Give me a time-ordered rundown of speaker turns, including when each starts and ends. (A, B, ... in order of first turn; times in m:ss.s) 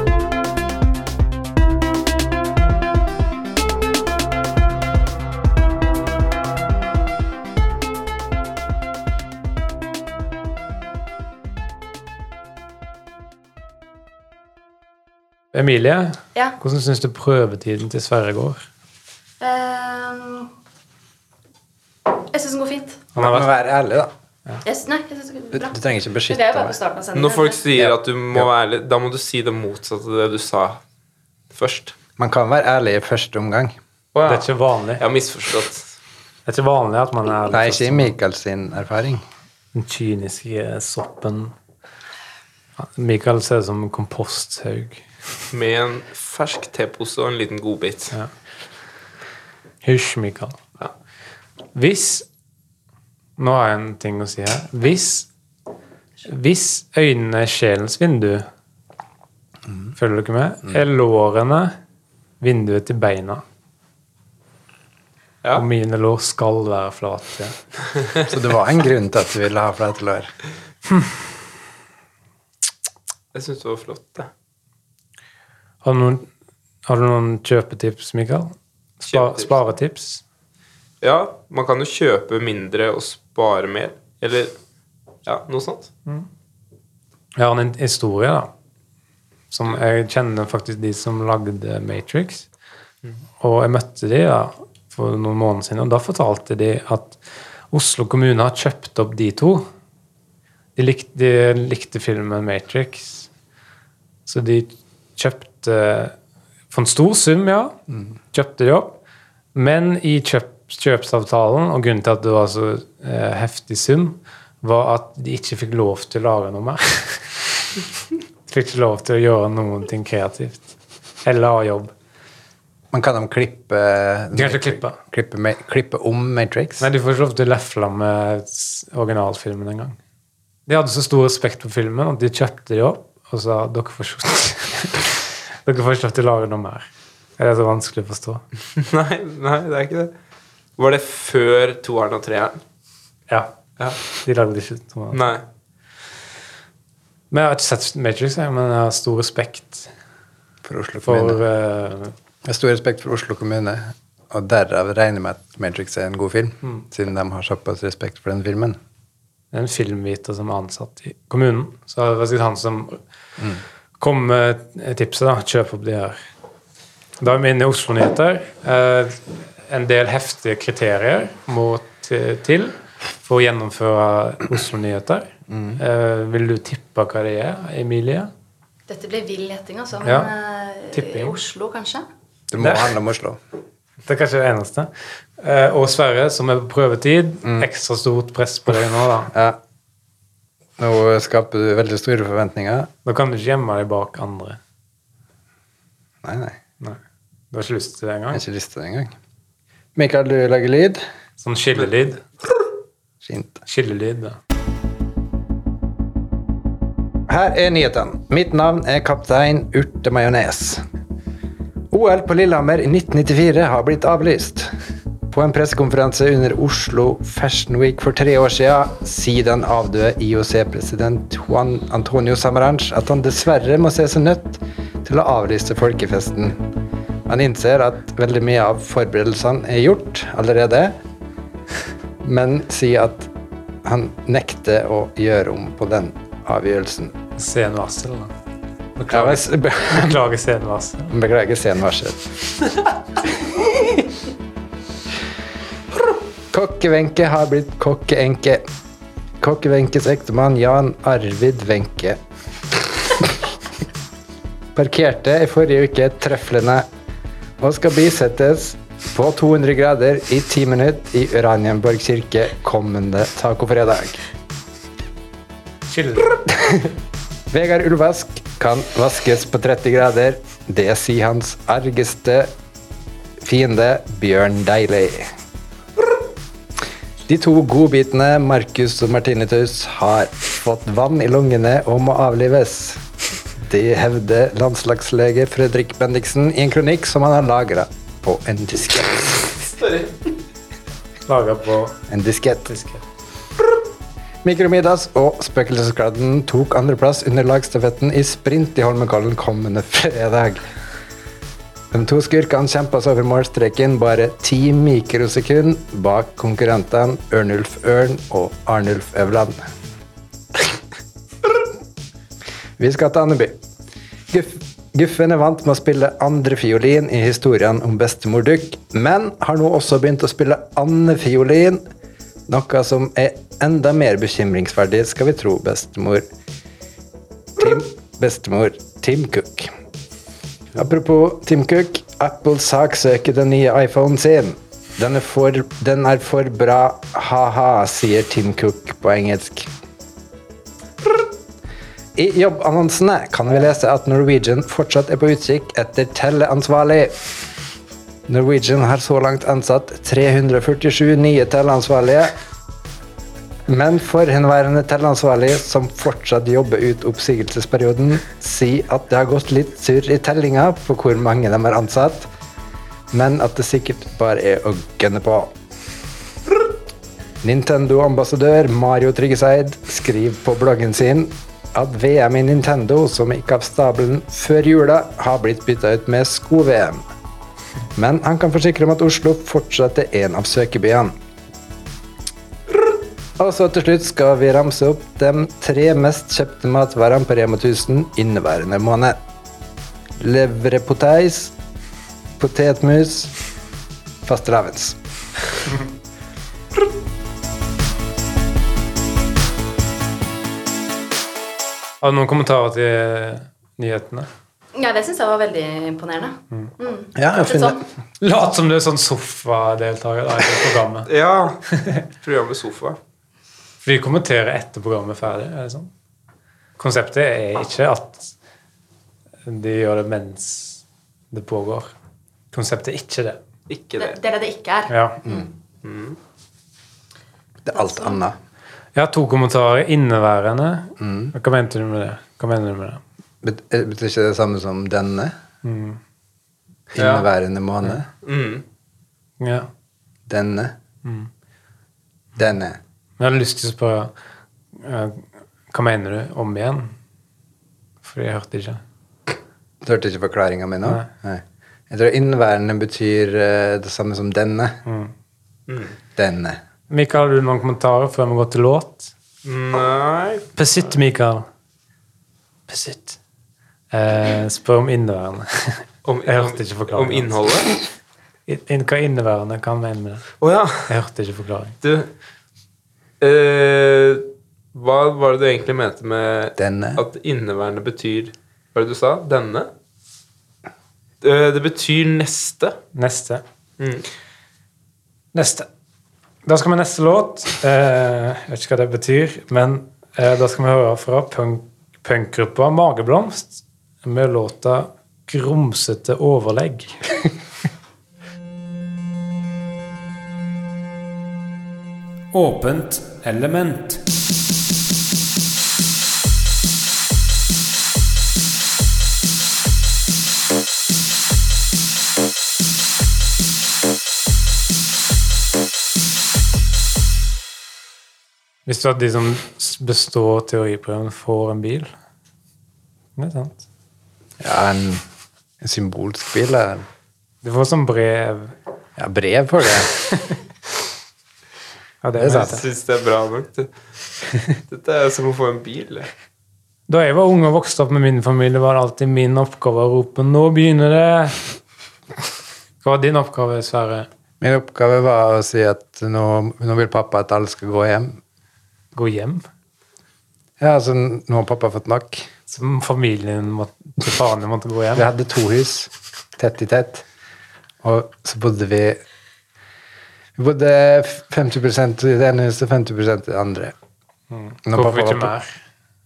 0:15.5-0:18.6 A
0:19.4-0:20.5 B
0:22.2-0:23.0 B
0:23.2-0:23.5 A
0:23.2-0:24.1 C
0:24.6-0:25.8 B
0:25.5-0:26.8 C
0:26.3-0:27.6 B
0:27.2-0:30.8 D
0:27.8-0:28.5 C
0:31.5-0:32.0 D
0:32.2-0:33.8 C
0:34.1-0:35.9 D
0:34.2-0:35.0 A
0:36.5-0:38.2 A
0:37.5-0:39.2 C
0:39.7-0:41.6 A
0:42.8-0:45.0 A
0:45.5-0:48.2 D
0:49.8-0:50.6 A
0:51.8-0:52.3 A
0:53.4-0:55.3 A
0:56.2-0:58.5 A
1:00.0-1:01.8 A
1:02.4-1:03.4 A
1:05.6-1:07.6 A
1:08.2-1:10.3 C
1:13.3-1:14.3 D
1:15.8-1:16.3 A
1:16.9-1:20.2 A
1:19.1-1:19.6 D
1:21.0-1:24.5 D
1:25.3-1:25.9 D
1:27.4-1:28.5 A
1:29.5-1:32.5 A
1:33.4-1:37.2 A
1:37.7-1:39.7 A
1:40.8-1:43.3 A
1:44.3-1:46.2 A
1:46.7-1:47.8 A
1:48.3-1:49.0 A
1:49.6-1:57.3 A
1:58.5-2:00.7 A
2:01.2-2:01.9 A
2:02.9-2:06.9 C
2:04.3-2:05.0 A
2:06.8-2:10.0 A
2:10.7-2:18.4 A
2:18.8-2:20.1 D
2:20.8-2:22.6 D
2:23.3-2:23.6 A
2:24.2-2:25.2 A
2:25.1-2:25.4 D
2:27.3-2:29.9 A
2:30.6-2:31.4 C
2:31.0-2:32.1 A
2:32.4-2:38.8 C
2:39.5-2:43.0 A
2:44.0-2:46.2 A
2:47.2-2:58.3 A
2:55.5-2:55.8 C
2:58.9-3:02.0 B
3:00.0-3:00.3 A
3:00.9-3:01.4 A
3:02.5-3:03.4 C
3:02.6-3:03.0 A
3:04.0-3:09.3 A
3:09.3-3:09.6 C
3:10.8-3:12.9 C
3:13.1-3:14.6 A
3:16.2-3:16.6 C
3:17.5-3:18.4 A
3:18.3-3:19.1 C
3:20.0-3:21.0 C
3:21.4-3:22.2 A
3:23.2-3:23.6 C
3:23.7-3:24.4 A
3:27.3-3:30.8 C
3:31.9-3:34.7 C
3:35.3-3:46.6 C
3:47.3-3:51.0 C
3:52.2-3:53.3 C
3:53.8-3:57.2 C
3:57.4-3:58.3 A
3:59.0-4:01.1 A
3:59.1-4:00.2 C
4:01.1-4:02.2 C
4:06.5-4:08.6 C
4:09.4-4:12.2 C
4:13.1-4:13.4 C
4:14.8-4:16.9 C
4:17.6-4:24.2 C
4:25.9-4:26.4 A
4:26.5-4:26.9 C
4:27.5-4:32.5 C
4:33.4-4:35.3 C
4:37.3-4:43.0 C
4:43.6-4:49.6 C
4:49.8-4:50.2 D
4:51.3-4:52.0 A
4:52.1-4:52.7 C
4:52.7-4:53.0 A
4:54.4-5:00.6 C
5:01.9-5:09.7 C
5:12.8-5:13.6 C
5:14.3-5:21.8 C
5:22.5-5:26.3 C
5:27.6-5:29.7 C
5:30.8-5:39.7 C
5:42.2-5:47.2 C
5:48.3-5:52.4 C
5:53.7-6:02.3 C
6:03.1-6:05.5 C
6:07.4-6:17.0 C
6:18.0-6:21.1 C
6:23.4-6:29.2 C
6:30.2-6:31.5 C
6:32.4-6:33.3 C
6:34.2-6:35.0 C
6:42.0-6:44.3 A
6:44.8-6:47.8 B
6:47.2-6:47.8 C
6:48.2-6:51.1 A
6:51.1-6:51.6 D
6:51.7-6:52.1 A
6:52.2-6:53.0 D
6:53.8-6:55.9 A
6:56.8-6:58.3 A
6:59.5-7:01.9 A
7:02.5-7:03.4 A
7:03.7-7:04.2 D
7:04.0-7:04.9 B
7:04.9-7:05.2 A
7:05.8-7:06.2 D
7:07.6-7:08.4 C
7:07.7-7:08.2 B
7:09.0-7:13.0 A
7:11.0-7:11.3 C
7:13.4-7:15.3 C
7:15.6-7:16.0 A
7:16.9-7:18.1 C
7:17.0-7:17.3 D
7:18.2-7:18.6 D
7:19.4-7:19.7 A
7:20.3-7:20.8 C
7:21.0-7:21.3 A
7:22.4-7:22.8 C
7:23.2-7:24.1 A
7:24.8-7:26.9 A
7:28.0-7:28.8 A
7:29.8-7:34.8 C
7:34.9-7:35.1 A
7:35.7-7:36.0 D
7:36.2-7:36.6 C
7:36.9-7:39.1 A
7:39.4-7:40.5 D
7:40.6-7:41.5 A
7:42.7-7:43.2 A
7:43.9-7:47.3 A
7:46.0-7:47.8 D
7:48.5-7:50.3 A
7:50.4-7:50.9 D
7:50.9-7:51.8 A
7:51.8-7:52.1 D
7:53.2-7:59.7 D
7:56.6-7:57.0 C
8:01.2-8:02.8 D
8:02.9-8:03.4 A
8:03.8-8:04.0 D
8:05.3-8:05.7 A
8:06.5-8:17.0 A
8:22.3-8:24.0 A
8:38.7-8:41.9 A
8:43.2-8:43.6 A
8:44.4-8:45.0 C
8:45.6-8:46.8 C
8:47.4-8:48.6 A
8:49.0-8:49.9 C
8:52.0-8:52.6 A
8:52.2-8:52.6 C
8:52.3-8:53.7 D
8:54.7-8:56.1 D
8:56.9-9:01.4 A
9:02.8-9:04.1 A
9:04.4-9:08.2 C
9:08.9-9:09.4 A
9:10.6-9:12.3 C
9:12.5-9:15.1 A
9:15.0-9:17.0 C
9:17.8-9:19.0 C
9:20.4-9:23.7 C
9:24.3-9:25.6 A
9:24.6-9:25.3 C